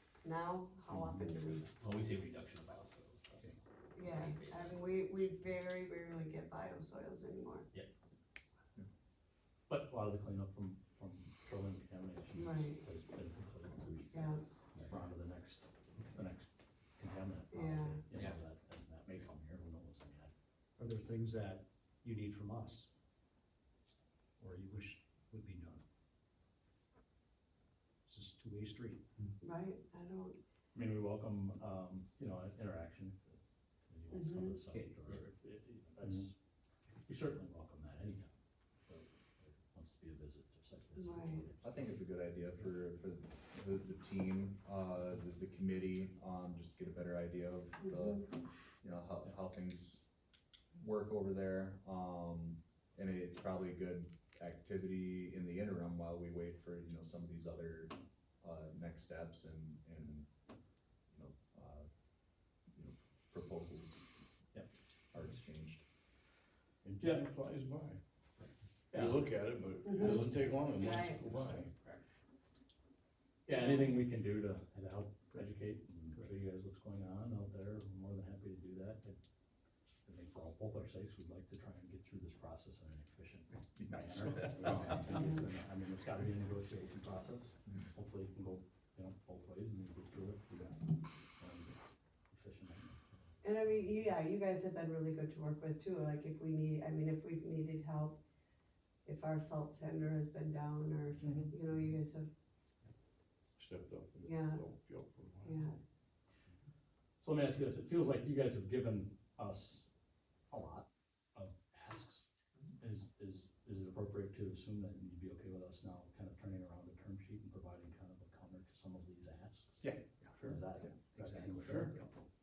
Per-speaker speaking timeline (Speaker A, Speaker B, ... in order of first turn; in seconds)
Speaker A: 0.2-1.7, 3.9-7.7, 12.3-12.8, 14.1-14.4, 17.5-18.0, 29.4-30.4, 34.1-34.6, 41.0-41.4, 47.8-48.2, 69.8-71.2, 73.5-74.0, 93.4-98.2, 99.0-102.3, 104.2-104.6, 105.4-105.8
Speaker B: 0.9-1.4, 20.8-22.9, 24.4-25.8, 28.0-29.0, 71.3-71.7, 83.9-84.9, 121.1-122.1
Speaker C: 1.8-5.2
Speaker D: 9.7-20.3, 30.7-36.3, 37.0-38.3, 38.9-41.8, 66.8-67.2, 68.9-69.2, 73.5-79.2, 80.0-90.8, 91.4-91.8, 92.3-93.0, 107.2-109.8, 110.5-112.2, 112.8-122.0
Speaker E: 41.6-48.3, 48.8-50.0, 50.8-60.3, 61.1-61.9, 62.7-64.0, 65.1-65.8, 119.8-120.0
Speaker F: 67.0-68.0, 68.9-71.9, 101.2-101.5, 103.6-105.7, 121.6-121.9